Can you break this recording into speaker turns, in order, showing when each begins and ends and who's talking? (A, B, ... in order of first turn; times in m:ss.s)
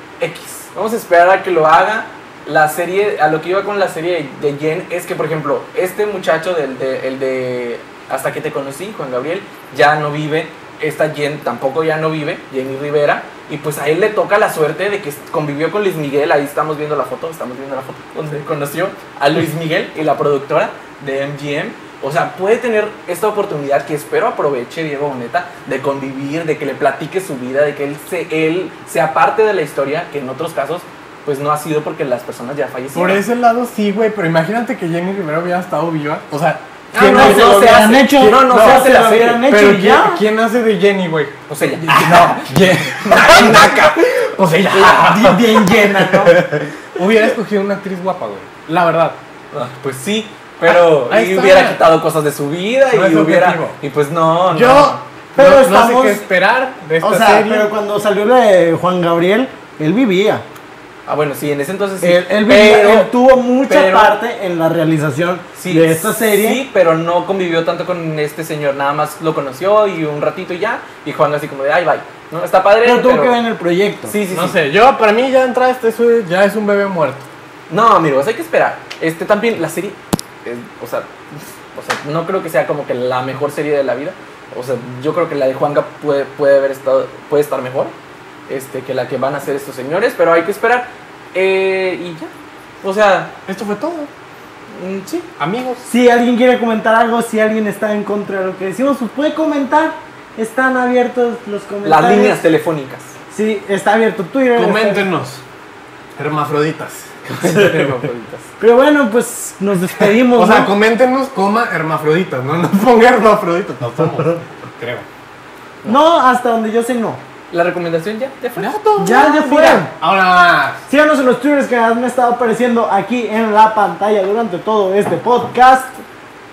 0:00.2-0:33.2 A
0:32.9-0:37.9 B
0:36.9-0:39.4 A
0:37.0-0:40.2 C
0:38.5-0:49.2 B
0:41.5-0:44.1 A
0:44.7-0:46.5 C
0:49.5-0:55.0 A
0:50.6-0:51.8 B
0:52.9-0:53.8 B
0:54.5-0:57.7 B
0:55.3-0:56.3 C
0:57.0-1:00.4 C
1:01.0-1:04.2 A
1:02.0-1:06.6 C
1:05.6-1:13.4 A
1:12.8-1:14.2 C
1:14.1-1:14.6 A
1:14.3-1:17.3 B
1:17.7-1:21.1 A
1:21.7-1:27.9 A
1:28.5-1:32.3 A
1:32.8-1:33.3 A
1:33.5-1:34.1 B
1:34.7-1:35.3 A
1:35.4-1:35.8 B
1:35.8-1:42.4 C
1:41.8-1:43.2 A
1:43.3-1:45.1 C
1:44.5-1:45.4 B
1:46.2-1:47.1 B
1:47.2-1:48.5 A
1:48.6-1:50.7 C
1:50.2-1:55.0 B
1:55.8-1:57.2 C
1:57.5-1:59.9 A
1:58.6-2:00.8 B
1:59.0-1:59.9 C
2:00.9-2:06.0 C